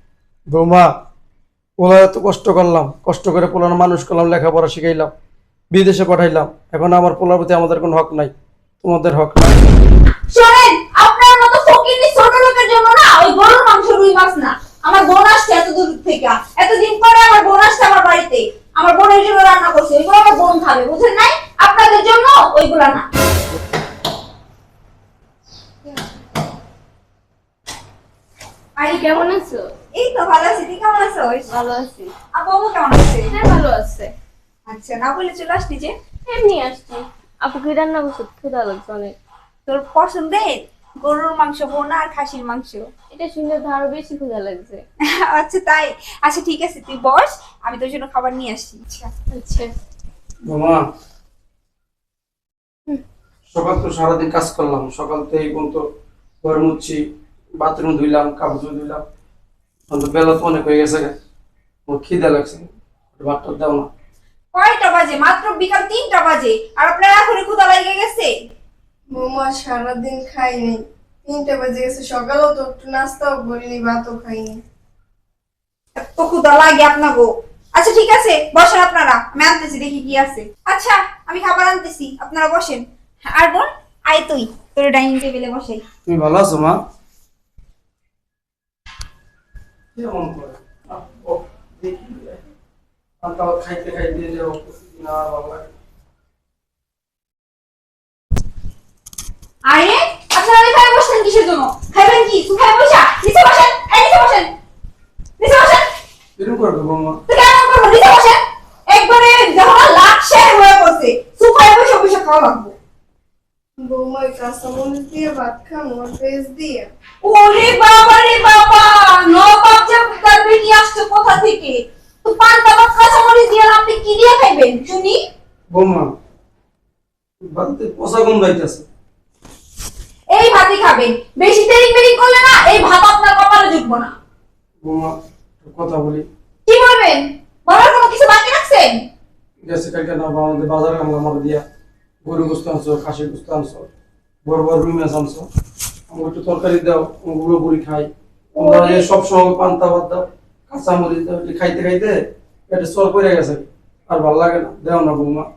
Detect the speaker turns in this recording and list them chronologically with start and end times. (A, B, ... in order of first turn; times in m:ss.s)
0:00.5-0:00.9 A
0:01.8-0:05.1 A
0:05.7-0:09.6 A
0:10.3-0:23.1 B
0:28.8-0:29.2 B
0:28.9-0:29.7 C
0:30.0-0:31.5 B
0:31.5-0:32.1 C
0:32.3-0:33.4 B
0:33.3-0:34.1 C
0:34.7-0:35.9 B
0:36.3-0:39.2 C
0:39.7-0:42.9 B
0:43.1-0:44.8 C
0:45.0-0:49.1 B
0:49.3-0:49.7 C
0:50.5-0:50.8 A
0:53.5-0:55.8 A
0:56.4-0:57.0 A
0:57.6-0:59.0 A
0:59.9-1:01.1 A
1:01.9-1:03.9 A
1:04.5-1:08.3 B
1:09.1-1:14.6 D
1:16.0-1:25.8 B
1:26.1-1:26.8 A
1:29.9-1:32.4 A
1:33.2-1:35.7 A
1:39.7-1:44.5 B
1:45.4-1:45.8 B
1:46.4-1:47.2 A
1:47.3-1:52.7 B
1:53.8-1:56.9 D
1:57.2-2:05.2 B
2:05.7-2:06.1 A
2:07.5-2:08.8 A
2:10.3-2:14.1 B
2:14.8-2:16.3 A
2:16.6-2:19.0 B
2:19.7-2:21.6 A
2:22.2-2:23.9 A
2:24.4-2:25.5 A
2:26.1-2:32.2 A
2:28.6-2:29.0 B
2:32.7-2:35.5 A